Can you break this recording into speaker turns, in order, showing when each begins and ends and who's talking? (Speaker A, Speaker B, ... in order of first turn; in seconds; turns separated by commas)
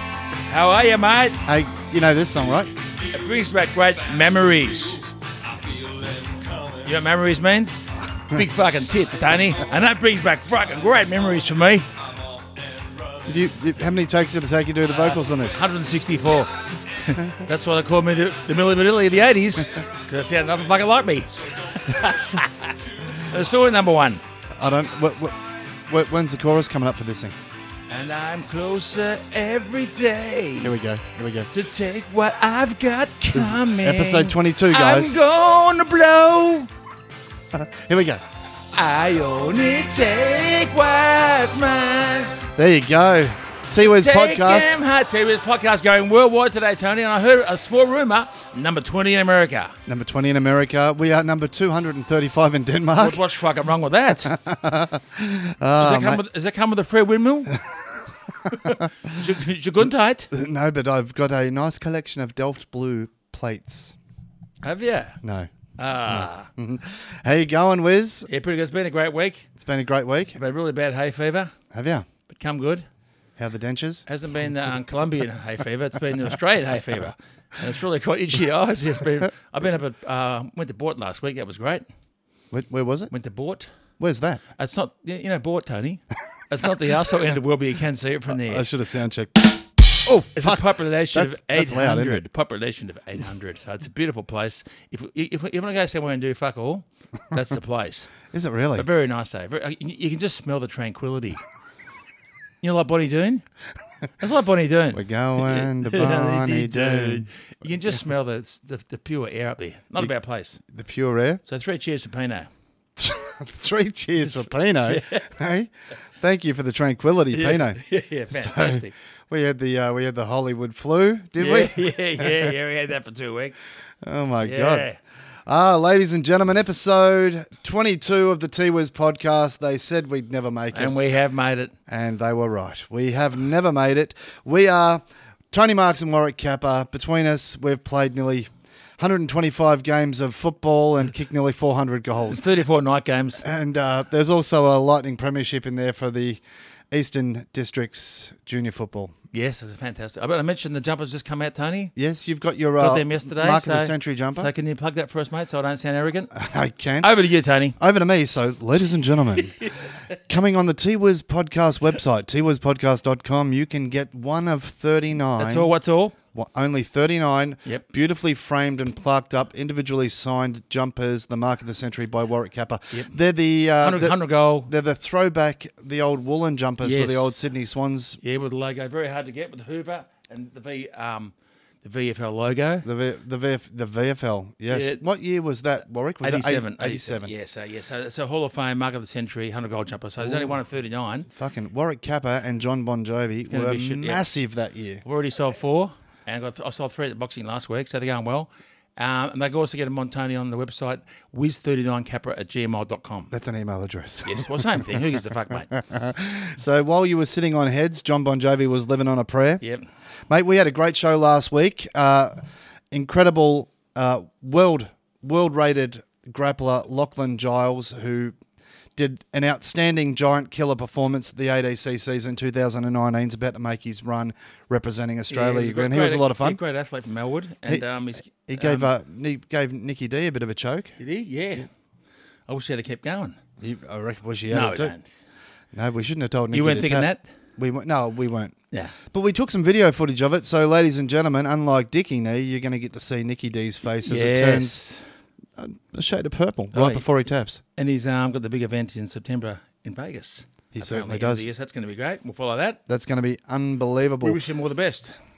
Speaker A: 0.5-1.4, Speaker B: 1.5-2.7, Speaker A: 3.1-5.1, Speaker A: 6.7-11.9, Speaker B: 13.2-15.6, Speaker A: 15.1-24.2, Speaker B: 24.6-27.4, Speaker A: 27.9-30.7, Speaker B: 30.6-31.5, Speaker A: 31.5-36.7, Speaker B: 33.3-35.1, Speaker B: 37.5-38.2, Speaker A: 38.7-42.4, Speaker B: 42.6-44.8, Speaker A: 43.8-49.8, Speaker B: 49.9-53.2, Speaker A: 53.0-54.4, Speaker B: 54.2-56.2, Speaker A: 55.8-57.6, Speaker A: 58.5-60.3, Speaker B: 60.3-64.0, Speaker A: 64.6-65.2, Speaker B: 65.2-65.5, Speaker A: 65.8-66.5, Speaker B: 66.1-68.3, Speaker A: 68.3-69.5, Speaker B: 69.6-70.4, Speaker A: 70.3-71.5, Speaker B: 71.7-72.0, Speaker A: 72.3-72.8, Speaker B: 73.4-74.0, Speaker A: 74.1-81.8, Speaker B: 82.5-83.1, Speaker A: 83.1-83.7, Speaker B: 84.0-84.4, Speaker A: 84.6-88.7, Speaker B: 88.4-92.3, Speaker A: 90.3-98.1, Speaker B: 98.3-98.9, Speaker A: 98.8-101.4, Speaker A: 102.6-103.5, Speaker A: 104.2-110.6, Speaker B: 104.9-107.2, Speaker B: 110.7-111.4, Speaker A: 111.5-112.5, Speaker B: 113.0-122.5, Speaker A: 114.3-115.3, Speaker A: 117.3-118.9, Speaker A: 121.4-123.5, Speaker B: 124.0-124.9, Speaker A: 124.4-125.0, Speaker B: 125.5-130.9, Speaker A: 130.7-131.7, Speaker B: 131.9-142.4, Speaker A: 142.3-143.4, Speaker B: 143.4-149.1, Speaker A: 149.3-151.9, Speaker B: 152.0-154.5, Speaker A: 152.8-156.3, Speaker B: 156.3-157.2, Speaker A: 157.0-157.8, Speaker B: 157.8-159.6, Speaker B: 160.3-165.7, Speaker A: 165.4-166.2, Speaker B: 166.3-178.2, Speaker A: 173.8-174.7, Speaker A: 176.8-177.4, Speaker A: 178.2-182.9, Speaker B: 182.8-187.3, Speaker A: 184.7-185.0, Speaker A: 186.2-191.3, Speaker B: 190.2-190.6, Speaker B: 191.3-195.0, Speaker A: 193.5-194.2, Speaker A: 195.0-203.3, Speaker B: 203.3-205.0, Speaker A: 204.2-205.7, Speaker B: 205.7-209.6, Speaker B: 210.3-212.3, Speaker B: 212.9-218.3, Speaker B: 219.0-226.6, Speaker A: 225.3-228.9, Speaker B: 228.5-230.9, Speaker A: 231.0-231.7, Speaker A: 232.5-233.4, Speaker B: 233.6-234.9, Speaker A: 234.5-235.1, Speaker B: 235.7-238.6, Speaker A: 236.5-237.2, Speaker B: 239.1-244.8, Speaker A: 244.1-245.1, Speaker B: 245.6-247.6, Speaker A: 246.7-247.1, Speaker A: 247.8-252.8, Speaker B: 250.7-251.5, Speaker B: 252.9-254.4, Speaker A: 254.2-255.1